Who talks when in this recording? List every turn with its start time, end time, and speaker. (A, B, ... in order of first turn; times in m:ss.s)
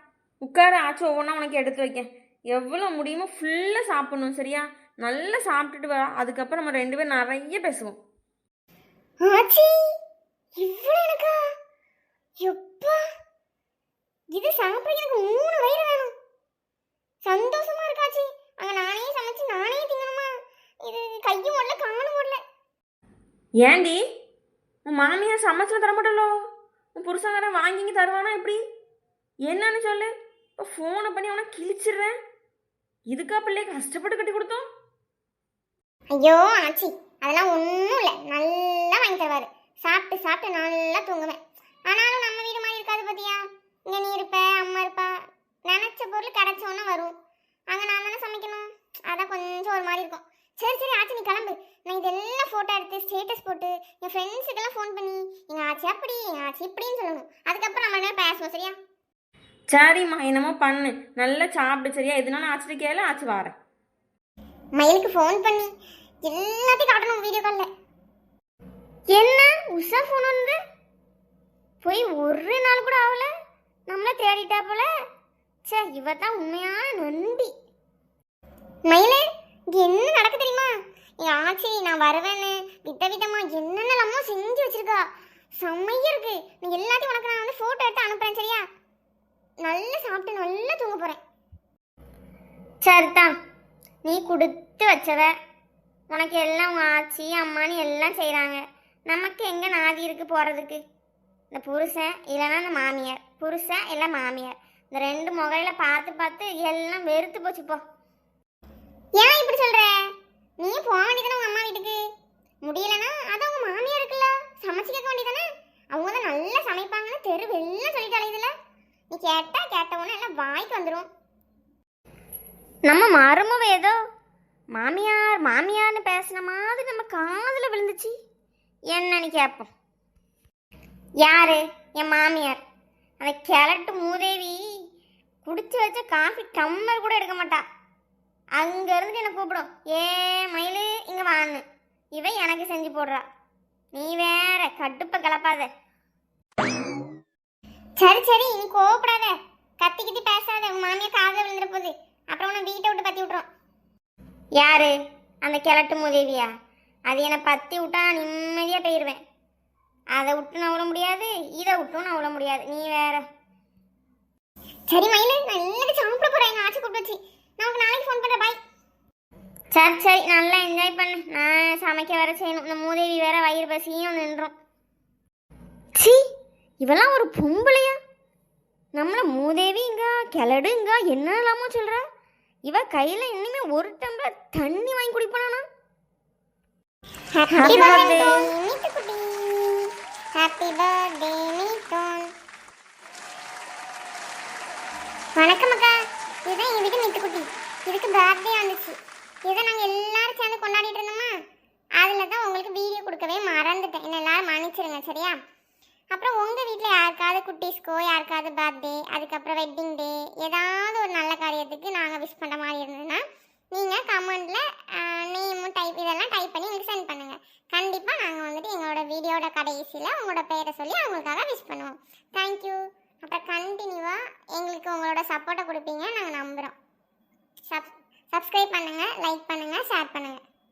0:00.4-0:08.0 A
0:09.2-0:09.8 B
0:10.6-0:11.4 B
0:12.4-0:13.0 B
0:14.3-0:16.1 B
0:17.2-0:20.3 B
0:20.8-0:22.4 B
0:23.6-0:24.0 A
0:24.8-0:26.3 A
0:27.0-0:28.6 A
0:29.5-0:32.1 A
0:33.1-0:34.6 A
0:36.1-0:45.1 B
0:45.7-0:47.1 B
0:47.7-0:58.8 B
0:59.7-1:03.5 A
1:04.8-1:05.7 B
1:06.2-1:07.7 B
1:09.1-1:10.6 C
1:11.8-1:13.3 C
1:13.9-1:14.8 C
1:15.7-1:17.5 C
1:18.9-1:19.2 B
1:19.7-1:20.7 B
1:21.2-1:25.0 B
1:25.6-1:28.6 B
1:29.7-1:31.2 B
1:32.8-1:33.3 C
1:34.0-1:35.3 C
1:36.1-1:40.8 C
1:41.5-1:47.8 C
1:49.2-1:49.9 B
1:50.6-1:52.0 B
1:52.7-1:58.5 B
1:59.1-2:01.0 B
2:02.9-2:03.9 C
2:04.8-2:08.1 C
2:08.9-2:09.7 C
2:11.2-2:12.6 C
2:13.2-2:14.6 C
2:15.4-2:17.6 C
2:18.6-2:21.6 C
2:22.2-2:23.2 C
2:24.0-2:25.7 C
2:28.0-2:33.4 B
2:34.6-2:34.9 C
2:35.4-2:36.5 C
2:37.1-2:39.2 C
2:40.2-2:43.2 C
2:44.9-2:48.6 B
2:49.7-2:54.5 C
2:56.8-2:58.0 C
2:59.0-3:02.0 C
3:02.7-3:05.6 C
3:07.4-3:09.8 B
3:07.6-3:08.4 C
3:10.4-3:12.3 B
3:15.4-3:15.9 B
3:16.5-3:21.3 B
3:22.0-3:25.4 B
3:26.1-3:46.7 B
3:47.7-3:50.4 B